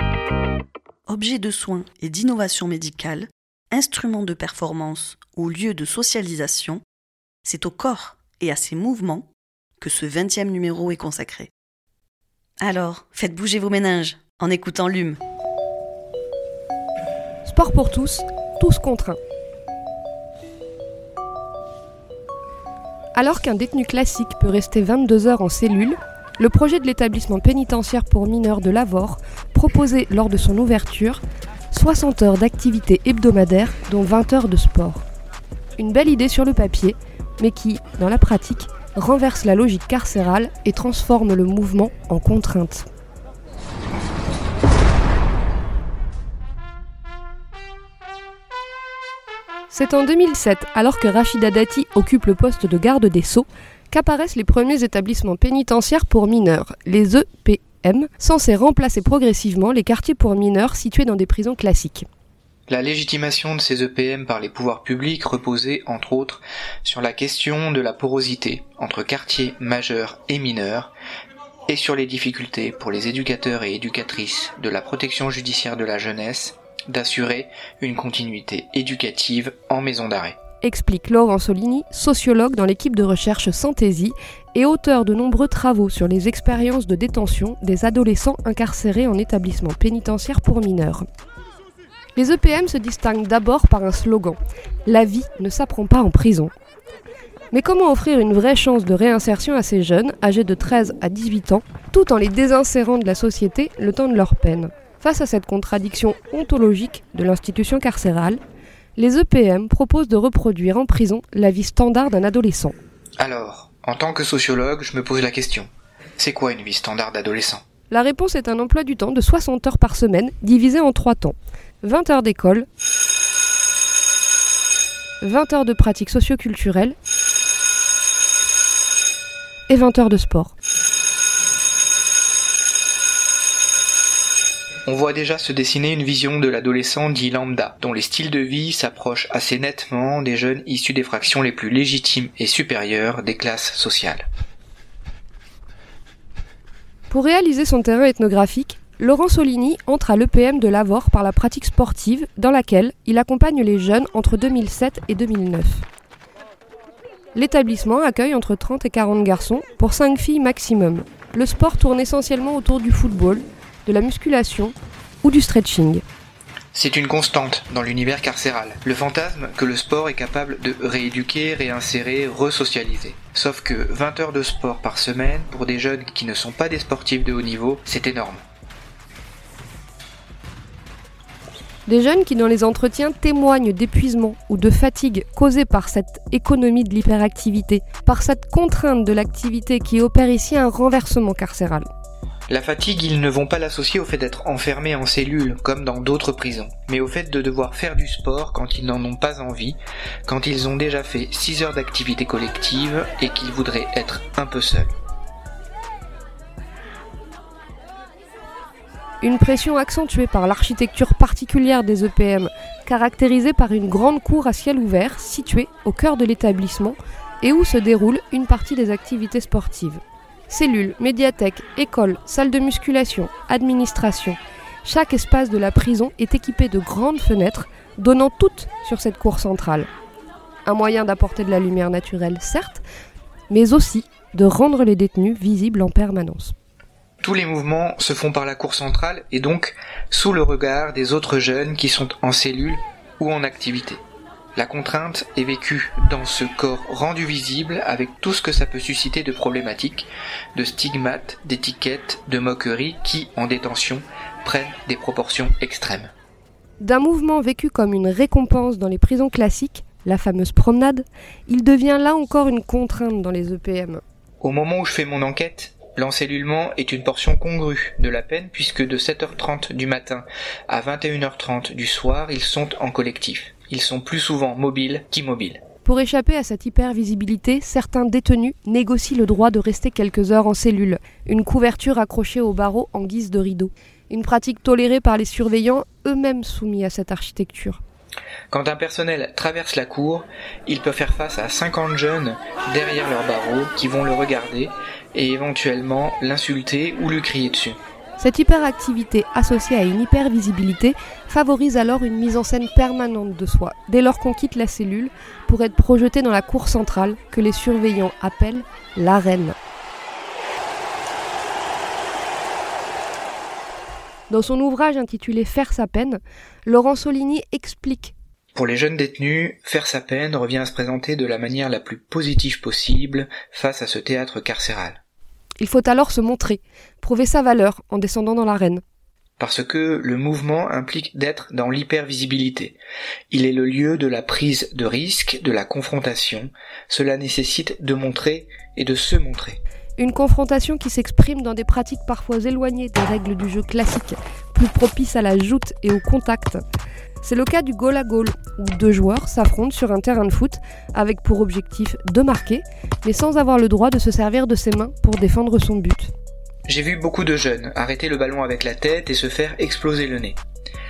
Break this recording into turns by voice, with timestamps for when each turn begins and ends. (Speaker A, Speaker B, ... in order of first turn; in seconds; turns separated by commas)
Speaker A: 1.1-6.8, Speaker A: 7.4-9.3, Speaker A: 9.8-11.5, Speaker A: 12.6-15.2, Speaker B: 17.4-19.2, Speaker B: 23.1-35.0, Speaker B: 35.8-42.9, Speaker B: 49.7-62.0, Speaker C: 62.7-70.9, Speaker C: 71.7-80.4, Speaker B: 80.6-91.1, Speaker B: 92.2-96.5, Speaker B: 97.5-108.4, Speaker B: 109.0-112.8, Speaker C: 113.2-117.6, Speaker B: 117.9-122.7, Speaker B: 125.2-127.0, Speaker B: 129.7-130.6, Speaker C: 134.9-144.2, Speaker B: 147.1-155.8, Speaker B: 157.3-166.0, Speaker C: 166.7-178.4, Speaker B: 181.9-191.9, Speaker C: 192.5-204.9, Speaker B: 209.2-229.9, Speaker B: 230.7-232.8, Speaker B: 233.5-236.6, Speaker C: 237.2-244.0, Speaker C: 244.6-256.1, Speaker B: 256.8-264.0, Speaker C: 264.4-275.6, Speaker B: 275.8-287.8, Speaker C: 288.5-297.8, Speaker B: 298.2-309.6, Speaker B: 314.3-318.1, Speaker C: 318.6-325.0, Speaker B: 325.6-328.8, Speaker C: 329.4-332.8, Speaker C: 333.3-339.6, Speaker B: 340.0-346.6, Speaker B: 347.2-356.1, Speaker C: 356.7-360.4